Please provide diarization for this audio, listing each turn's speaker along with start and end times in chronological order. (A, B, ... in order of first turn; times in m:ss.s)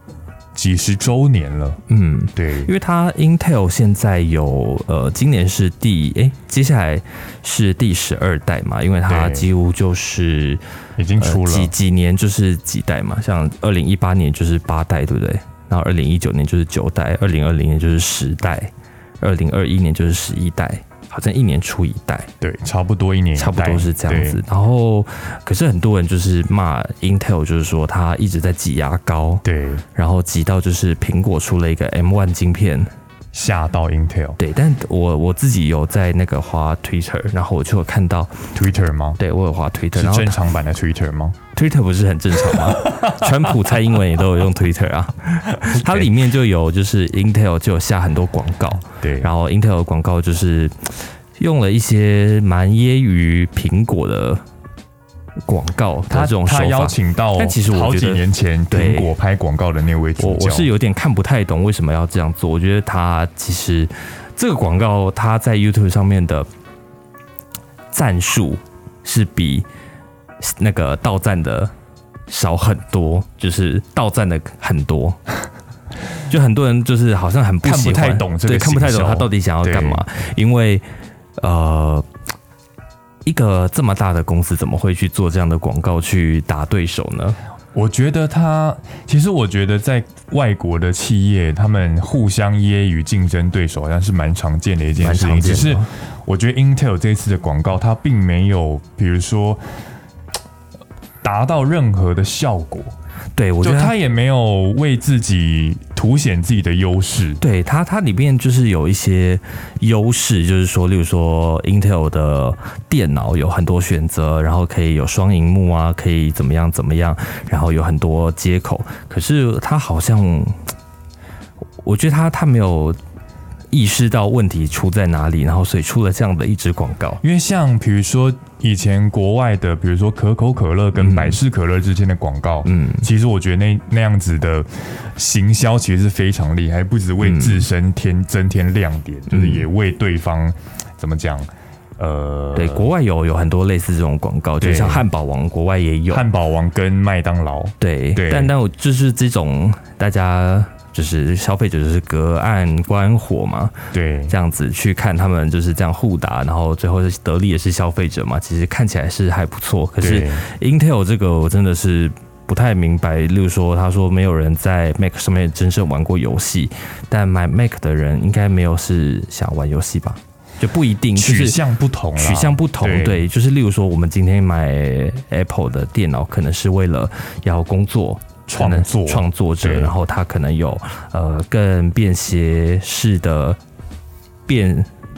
0:00.5-0:01.8 A
0:01.9-0:10.6 B
0:02.3-0:02.7 A
0:09.1-0:09.5 A
0:11.0-0:11.7 A
0:11.2-0:22.3 B
0:22.4-0:24.4 A
0:23.4-0:32.9 B
0:29.4-0:29.8 A
0:33.3-0:34.4 A
0:34.4-0:38.5 B
0:38.5-0:39.2 A
0:39.2-0:40.4 B
0:39.9-0:41.4 A
0:41.5-0:54.4 B
0:42.6-0:43.3 A
0:45.6-0:46.1 A
0:49.0-0:49.3 A
0:55.5-0:59.1 B
0:56.1-1:00.7 A
1:00.2-1:06.5 B
1:07.9-1:09.6 B
1:10.4-1:11.7 B
1:12.3-1:15.2 B
1:16.3-1:20.8 B
1:17.6-1:20.0 A
1:21.4-1:22.0 B
1:23.2-1:27.4 B
1:27.7-1:39.6 A
1:35.0-1:35.9 B
1:41.2-1:42.9 A
1:43.4-1:43.9 B
1:43.6-1:47.4 A
1:47.4-2:00.7 B
2:01.8-2:03.0 B
2:03.7-2:07.2 B
2:07.2-2:22.9 A
2:11.0-2:11.4 B
2:12.6-2:13.1 B
2:17.2-2:17.7 B
2:19.3-2:19.6 B
2:22.5-2:26.2 B
2:24.6-2:25.1 A
2:26.1-2:28.5 A
2:27.8-2:33.8 B
2:33.9-2:34.3 A
2:34.3-2:51.6 B
2:40.0-2:40.4 A
2:51.1-2:53.2 A
2:52.2-3:03.6 B
2:58.5-2:59.9 A
3:04.5-3:04.9 B